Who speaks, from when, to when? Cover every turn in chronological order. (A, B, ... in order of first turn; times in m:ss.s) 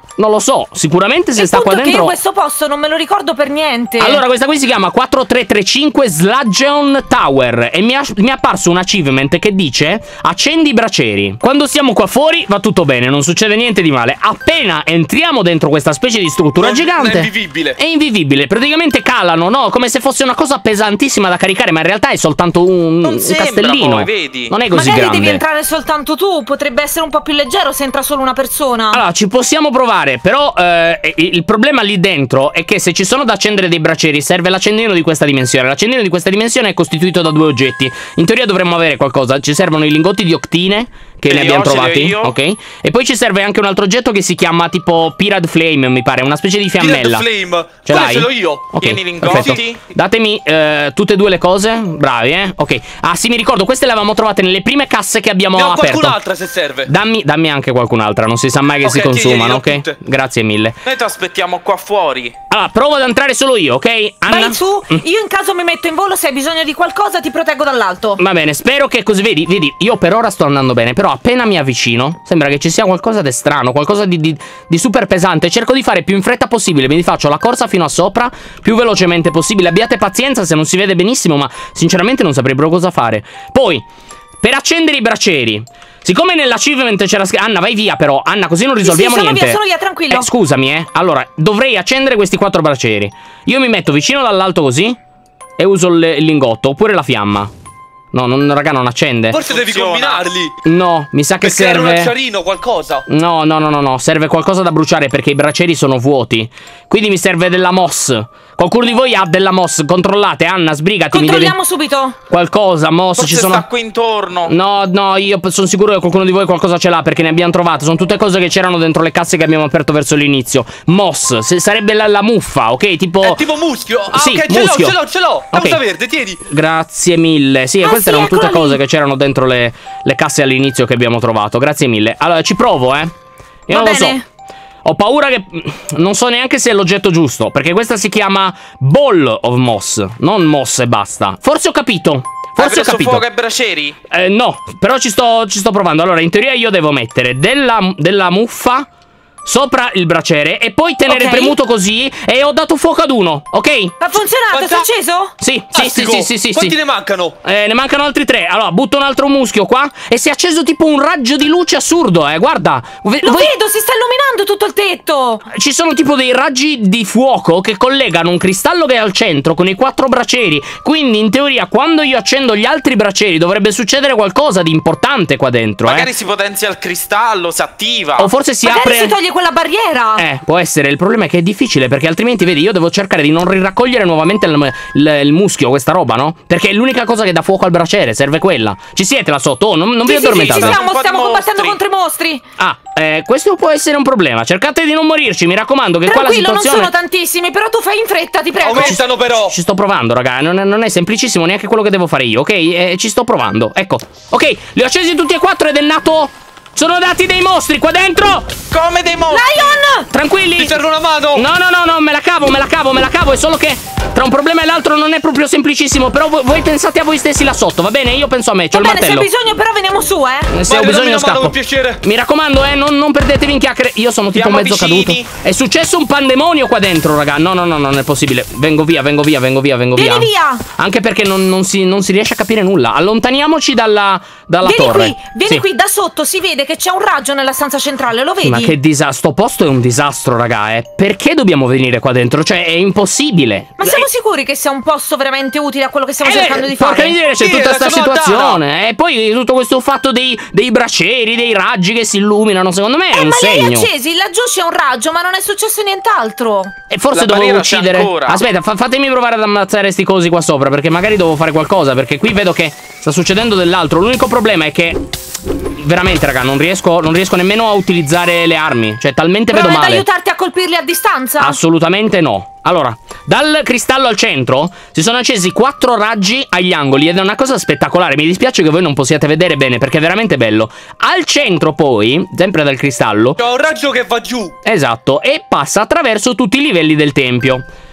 0:00.2-0:02.2 A
0:01.4-0:04.2 B
0:04.0-0:25.4 A
0:16.6-0:17.8 C
0:23.0-0:24.5 D
0:24.7-0:29.0 B
0:28.9-0:47.3 A
0:41.3-0:42.4 D
0:46.8-0:49.6 C
0:47.8-0:56.2 A
0:48.8-0:49.8 D
0:55.6-0:56.9 C
0:56.9-1:00.8 A
0:58.8-1:00.0 C
1:00.8-1:02.4 D
1:02.5-1:05.0 A
1:04.3-1:08.2 B
1:08.2-1:23.8 A
1:24.4-1:35.0 A
1:28.8-1:30.3 B
1:35.6-1:37.5 A
1:38.1-1:39.4 A
1:39.3-1:40.5 C
1:39.5-1:40.3 D
1:40.6-1:42.1 A
1:41.4-1:43.0 C
1:43.1-1:51.6 A
1:51.1-1:52.2 B
1:52.3-1:53.7 A
1:53.2-1:54.5 D
1:54.5-2:03.4 A
2:03.2-2:06.4 C
2:04.1-2:05.0 A
2:05.5-2:05.8 A
2:06.5-2:13.1 A
2:07.8-2:08.8 B
2:13.7-2:14.2 A
2:13.7-2:14.2 B
2:14.8-2:23.2 A
2:22.6-2:24.0 D
2:24.1-2:28.9 A
2:29.4-2:34.0 A
2:31.1-2:31.6 B
2:34.0-2:35.3 B
2:34.5-2:34.9 C
2:35.4-2:36.8 A
2:35.7-2:37.4 C
2:37.4-2:43.5 A
2:43.2-2:45.5 B
2:45.5-2:56.1 A
2:55.8-2:58.3 D
2:58.2-2:59.1 A
2:58.6-3:00.2 B
3:00.2-3:10.8 A
3:10.1-3:12.4 B
3:10.2-3:11.8 D
3:12.6-3:16.9 A
3:16.1-3:19.0 B
3:18.6-3:19.6 C
3:18.8-3:28.5 A
3:28.7-3:29.8 D
3:29.3-3:30.1 B
3:30.1-3:30.8 A
3:30.6-3:31.4 C
3:31.3-3:39.3 A
3:38.7-3:40.5 B
3:40.5-3:55.6 A
3:40.7-3:42.0 C
3:44.3-3:45.3 D
3:50.0-3:50.6 B
3:54.6-3:58.7 B
3:58.4-4:04.1 A
4:03.8-4:07.2 B
4:06.2-4:13.9 A
4:07.4-4:08.6 C
4:13.1-4:16.7 B
4:16.9-4:25.0 A
4:17.1-4:18.4 D
4:25.8-4:30.0 A
4:29.5-4:31.6 B
4:31.4-4:43.4 A
4:43.4-4:44.6 C
4:44.6-4:47.7 A